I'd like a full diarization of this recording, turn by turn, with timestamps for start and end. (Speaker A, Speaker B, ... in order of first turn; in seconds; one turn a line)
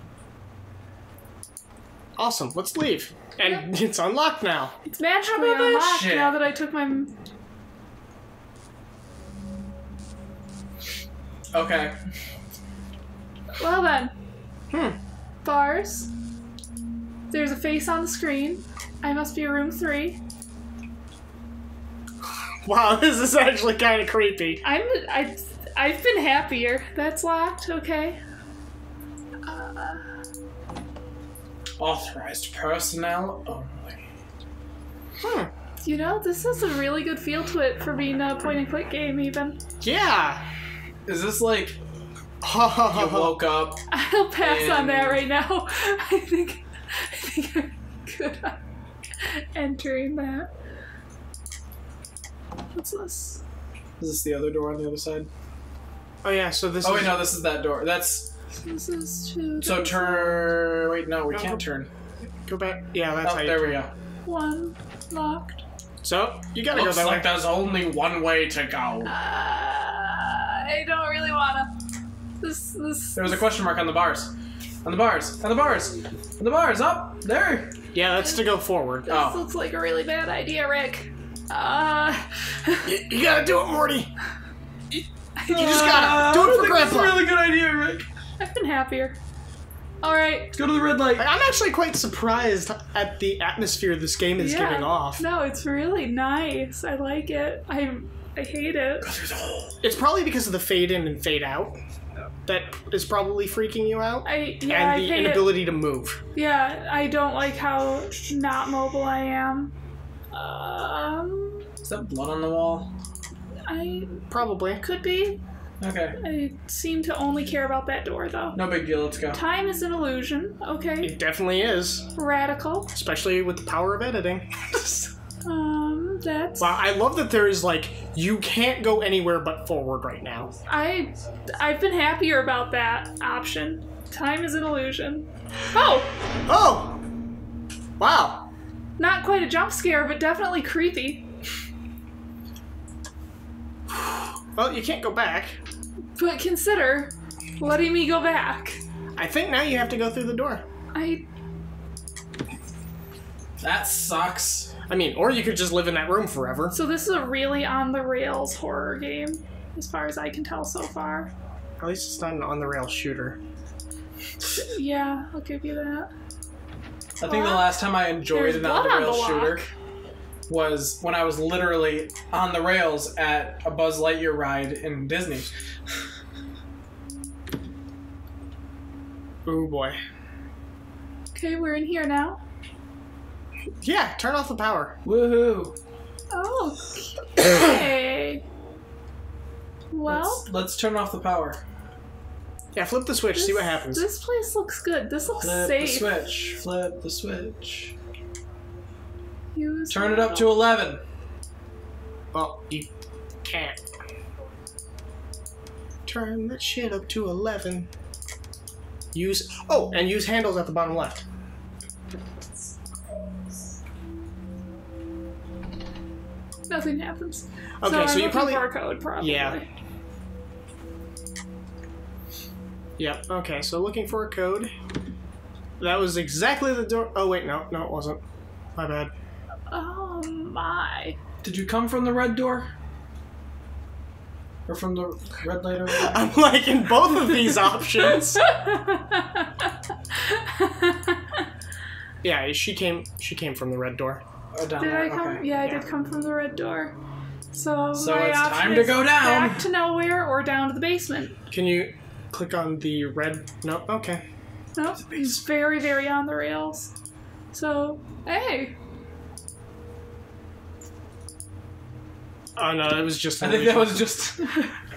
Speaker A: 2.2-4.7
Speaker B: 4.9-7.1
Speaker C: 5.3-6.4
Speaker C: 11.5-12.0
Speaker B: 13.6-14.1
Speaker A: 14.7-15.0
Speaker B: 15.4-16.1
Speaker B: 17.3-20.2
Speaker A: 22.6-24.6
Speaker B: 24.6-28.2
Speaker B: 29.4-30.1
Speaker C: 31.8-34.0
Speaker A: 35.2-35.5
Speaker B: 35.8-39.6
Speaker A: 39.8-40.4
Speaker C: 41.1-41.8
Speaker A: 42.4-43.4
Speaker C: 42.9-43.9
Speaker B: 43.9-48.6
Speaker C: 44.5-45.3
Speaker B: 49.2-50.5
Speaker B: 52.8-53.4
Speaker C: 54.0-55.3
Speaker A: 56.2-57.3
Speaker C: 56.8-58.3
Speaker B: 58.6-60.5
Speaker C: 59.6-61.9
Speaker A: 61.3-61.6
Speaker A: 62.5-63.7
Speaker C: 63.2-63.9
Speaker B: 64.3-65.6
Speaker A: 66.0-67.3
Speaker C: 66.7-69.1
Speaker B: 69.1-71.7
Speaker B: 72.4-73.5
Speaker C: 73.2-74.3
Speaker C: 74.8-77.7
Speaker A: 77.9-79.1
Speaker B: 78.2-82.9
Speaker C: 79.1-79.4
Speaker A: 82.8-84.1
Speaker B: 85.4-86.2
Speaker A: 85.5-87.2
Speaker C: 85.6-88.1
Speaker B: 88.4-89.2
Speaker B: 90.0-90.6
Speaker C: 90.5-91.3
Speaker A: 91.2-95.2
Speaker B: 94.4-99.1
Speaker C: 99.0-99.8
Speaker A: 99.8-101.8
Speaker A: 102.5-106.2
Speaker B: 104.2-105.7
Speaker B: 106.3-109.7
Speaker B: 110.3-111.7
Speaker C: 111.8-112.9
Speaker B: 113.7-115.4
Speaker A: 114.3-114.8
Speaker C: 115.8-116.2
Speaker B: 116.2-118.6
Speaker C: 118.5-119.4
Speaker B: 119.3-121.2
Speaker A: 121.0-122.1
Speaker B: 122.2-122.9
Speaker A: 122.9-125.1
Speaker B: 125.5-126.8
Speaker A: 126.6-130.5
Speaker B: 130.7-136.1
Speaker A: 136.5-137.0
Speaker A: 138.0-138.5
Speaker B: 139.0-141.2
Speaker A: 144.5-145.6
Speaker B: 146.2-148.8
Speaker A: 149.2-150.6
Speaker B: 150.9-151.3
Speaker C: 153.6-154.7
Speaker A: 154.9-156.8
Speaker B: 156.7-161.3
Speaker A: 161.8-163.4
Speaker B: 164.4-166.1
Speaker C: 167.2-169.7
Speaker B: 167.2-167.8
Speaker B: 168.3-169.7
Speaker C: 170.5-175.5
Speaker A: 179.5-180.0
Speaker B: 181.3-182.4
Speaker A: 183.8-185.0
Speaker C: 185.1-185.8
Speaker B: 186.3-188.4
Speaker B: 189.9-190.5
Speaker C: 190.1-191.6
Speaker A: 192.8-194.1
Speaker B: 193.3-196.2
Speaker C: 195.4-197.9
Speaker B: 199.6-200.6
Speaker C: 199.9-201.0
Speaker A: 202.3-202.9
Speaker A: 203.4-203.8
Speaker A: 206.1-207.9
Speaker A: 209.1-211.3
Speaker B: 216.7-219.7
Speaker A: 217.8-219.6
Speaker A: 223.0-224.7
Speaker A: 225.8-228.2
Speaker A: 228.8-229.1
Speaker B: 229.7-231.2
Speaker C: 231.4-232.7
Speaker C: 234.7-236.3
Speaker A: 235.9-238.5
Speaker B: 237.9-241.4
Speaker A: 242.2-244.2
Speaker C: 244.5-245.5
Speaker B: 244.8-247.0
Speaker B: 247.5-251.4
Speaker C: 248.1-249.7
Speaker A: 251.5-254.2
Speaker B: 254.8-256.9
Speaker C: 255.1-255.4
Speaker B: 257.5-258.7
Speaker A: 262.6-264.1
Speaker C: 263.4-264.6